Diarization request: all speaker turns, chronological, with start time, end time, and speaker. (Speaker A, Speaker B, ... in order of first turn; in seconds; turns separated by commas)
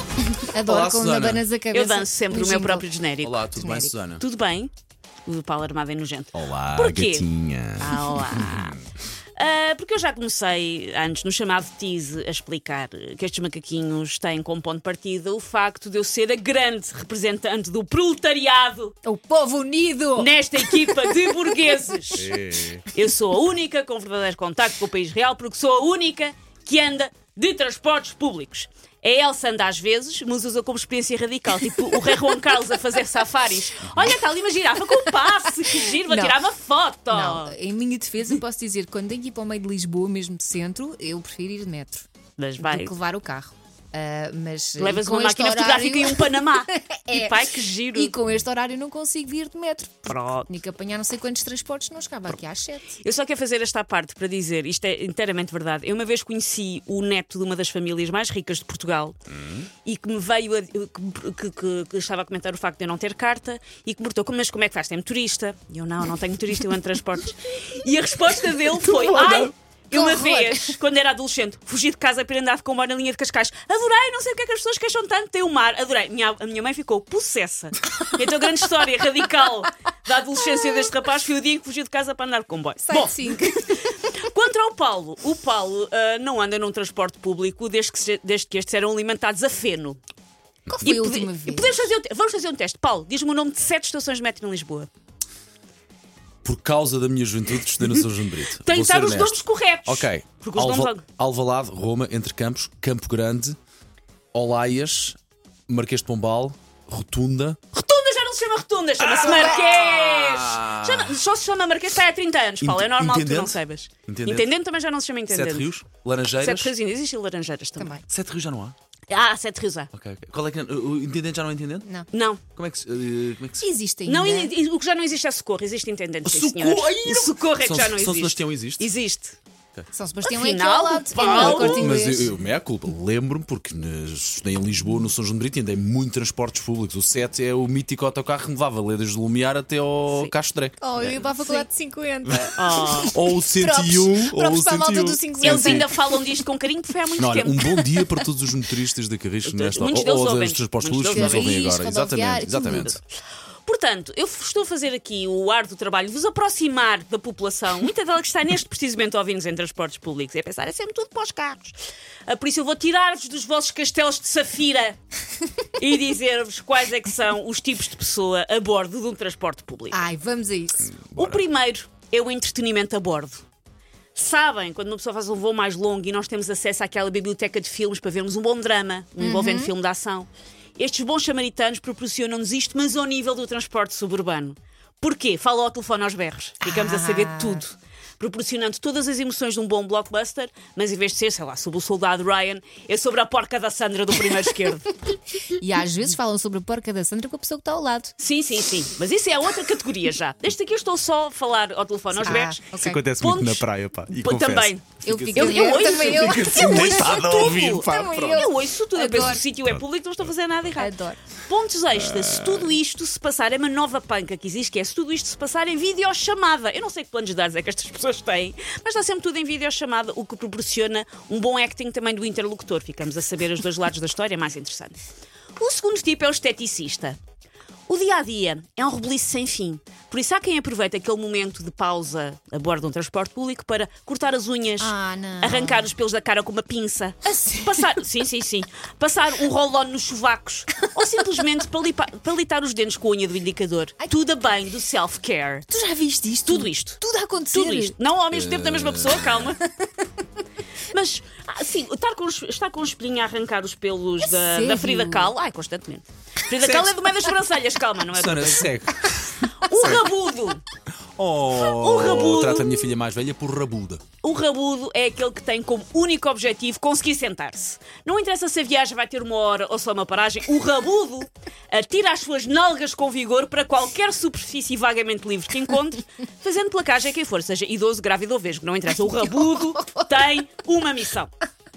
Speaker A: 0.5-2.9, Speaker B: 0.6-1.5, Speaker C: 1.7-3.6, Speaker B: 3.2-4.2, Speaker A: 3.6-3.9, Speaker C: 4.2-4.7, Speaker C: 5.2-8.8, Speaker B: 6.3-8.7, Speaker C: 9.3-19.0, Speaker A: 19.0-21.3, Speaker C: 20.1-22.3, Speaker B: 22.2-22.9, Speaker C: 22.9-37.6, Speaker B: 33.8-34.1, Speaker A: 36.0-36.4, Speaker A: 37.1-42.0, Speaker C: 42.4-42.9, Speaker A: 42.6-52.9, Speaker C: 44.8-48.1, Speaker C: 50.0-50.5, Speaker C: 52.9-59.2, Speaker B: 59.4-59.6, Speaker C: 59.8-90.0, Speaker A: 69.2-70.8, Speaker A: 82.8-83.9, Speaker A: 90.7-91.8, Speaker C: 90.8-94.9, Speaker B: 96.4-103.6, Speaker C: 98.6-101.0, Speaker B: 104.3-105.2, Speaker B: 105.7-107.6, Speaker C: 107.7-115.7, Speaker B: 109.0-111.2, Speaker A: 109.2-109.6, Speaker B: 112.6-114.5, Speaker B: 115.3-116.7, Speaker C: 116.4-118.0, Speaker A: 117.8-118.0, Speaker B: 118.1-118.7, Speaker C: 119.1-119.9, Speaker B: 119.9-121.9, Speaker C: 122.1-122.4, Speaker B: 122.5-123.7, Speaker A: 123.6-124.5, Speaker C: 124.0-129.4, Speaker B: 126.2-128.9, Speaker A: 129.9-132.3, Speaker C: 130.2-132.0, Speaker B: 131.3-141.2, Speaker C: 140.1-140.3, Speaker A: 140.8-146.1, Speaker C: 141.0-141.7, Speaker B: 142.3-145.8, Speaker C: 142.6-143.1, Speaker C: 145.4-147.8, Speaker B: 147.2-153.0, Speaker C: 149.4-151.6, Speaker A: 151.0-152.9, Speaker C: 152.7-153.0, Speaker C: 153.7-165.0, Speaker C: 165.8-170.0, Speaker A: 169.9-170.8, Speaker B: 170.8-171.4, Speaker C: 171.1-173.4, Speaker C: 174.1-195.0, Speaker A: 179.2-179.7, Speaker A: 186.6-187.6, Speaker A: 195.6-198.1, Speaker C: 198.2-202.6, Speaker A: 202.1-203.0, Speaker B: 202.7-208.4, Speaker C: 203.2-225.0, Speaker A: 205.0-207.2, Speaker A: 207.8-209.4, Speaker B: 209.1-209.8, Speaker A: 210.8-211.2, Speaker B: 211.9-212.8, Speaker C: 225.6-227.2, Speaker C: 227.9-245.7, Speaker A: 234.8-235.9, Speaker A: 237.3-237.8, Speaker A: 245.7-247.9, Speaker C: 246.4-247.0, Speaker C: 247.5-249.6, Speaker B: 248.3-249.5, Speaker C: 250.9-258.7, Speaker A: 254.2-255.3, Speaker B: 256.6-257.0, Speaker B: 258.1-260.0, Speaker C: 259.6-260.6, Speaker B: 261.1-264.0, Speaker C: 261.6-262.9, Speaker C: 264.2-281.3